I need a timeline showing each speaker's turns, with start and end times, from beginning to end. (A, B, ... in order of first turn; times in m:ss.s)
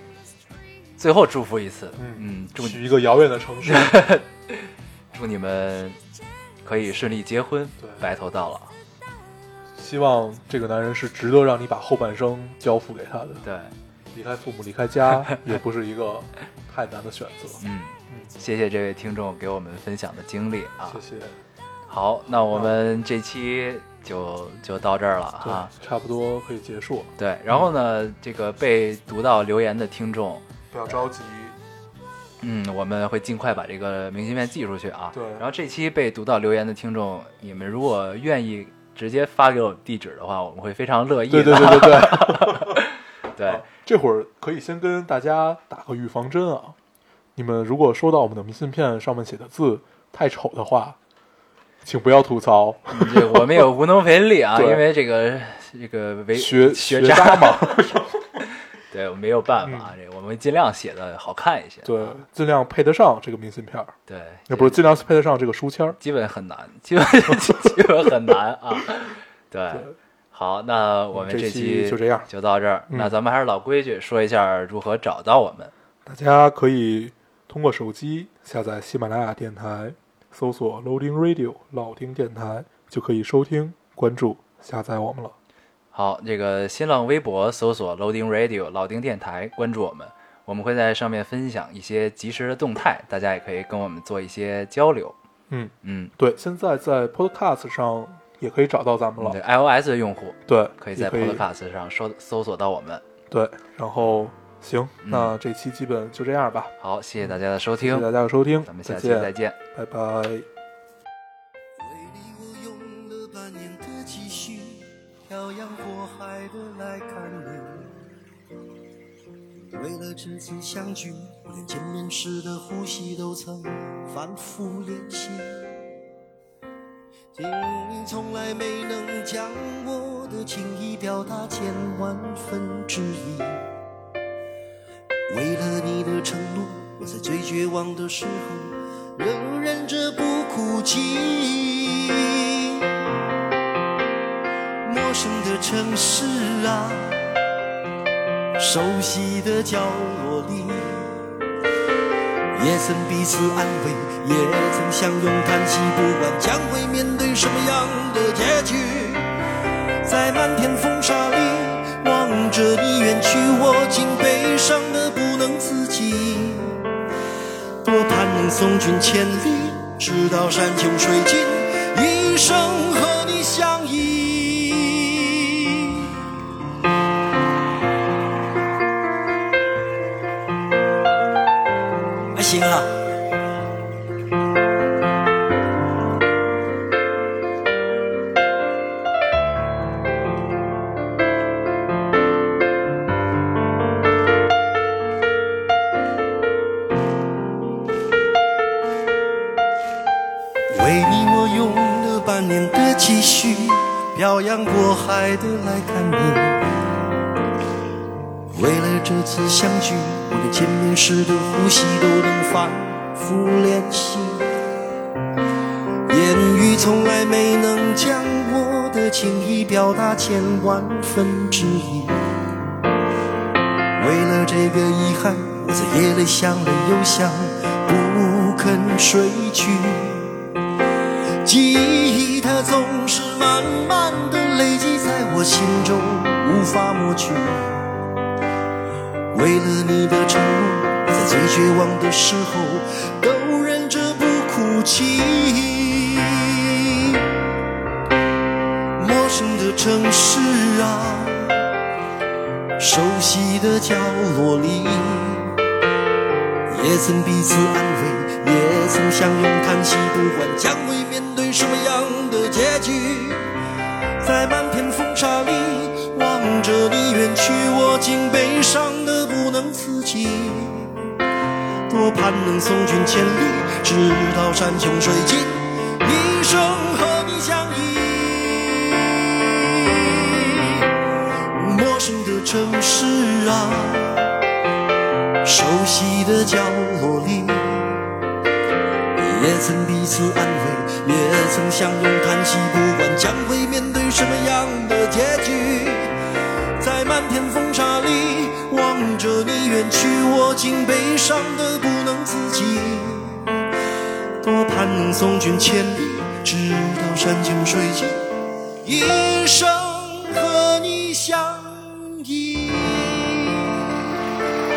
0:01.0-0:02.8 A
0:02.0-0:04.1 B
0:03.6-0:06.0 A
0:06.6-0:08.7 A
0:07.8-0:08.0 B
0:09.7-0:13.4 B
0:13.4-0:13.7 A
0:14.1-0:18.3 B
0:17.6-0:21.0 A
0:20.9-0:21.4 B
0:21.9-0:25.7 A
0:22.5-0:22.8 B
0:25.4-0:27.7 B
0:27.2-0:30.4 A
0:30.7-0:31.6 B
0:32.4-0:43.6 A
0:35.1-0:35.4 B
0:41.3-0:42.8 B
0:43.4-0:46.8 B
0:47.4-0:51.0 B
0:51.8-0:53.6 B
0:52.9-1:02.2 A
0:54.5-0:54.8 B
0:56.3-0:58.2 B
0:59.6-0:59.9 B
1:01.8-1:03.9 B
1:04.1-1:04.8 A
1:04.5-1:06.0 B
1:06.0-1:15.7 A
1:11.1-1:12.3 B
1:16.0-1:25.3 B
1:25.9-1:35.2 A
1:35.5-1:39.4 B
1:35.8-1:36.1 A
1:39.2-1:43.0 A
1:40.5-1:41.4 B
1:43.3-1:46.7 B
1:45.0-1:45.3 A
1:46.8-1:48.1 A
1:47.8-1:50.4 B
1:48.6-1:49.6 A
1:51.8-1:57.9 C
1:59.5-2:05.7 C
2:07.3-2:13.7 C
2:15.3-2:22.9 C
2:24.8-2:27.3 C
2:28.6-2:31.2 C
2:32.5-2:39.2 C
2:40.0-2:46.8 C
2:47.8-2:56.1 C
3:02.3-3:03.0 C
3:20.7-3:26.7 C
3:28.5-3:34.5 C
3:36.1-3:42.2 C
3:44.0-3:50.4 C
3:51.4-3:57.8 C
3:59.3-4:07.3 C
4:09.0-4:11.6 C
4:12.8-4:15.5 C
4:16.7-4:23.4 C
4:24.2-4:31.0 C
4:31.9-4:40.9 C
4:41.5-4:44.3 C
4:45.4-4:48.0 C
4:49.1-4:56.1 C
4:56.8-5:03.5 C
5:04.4-5:08.2 C
5:08.8-5:13.7 C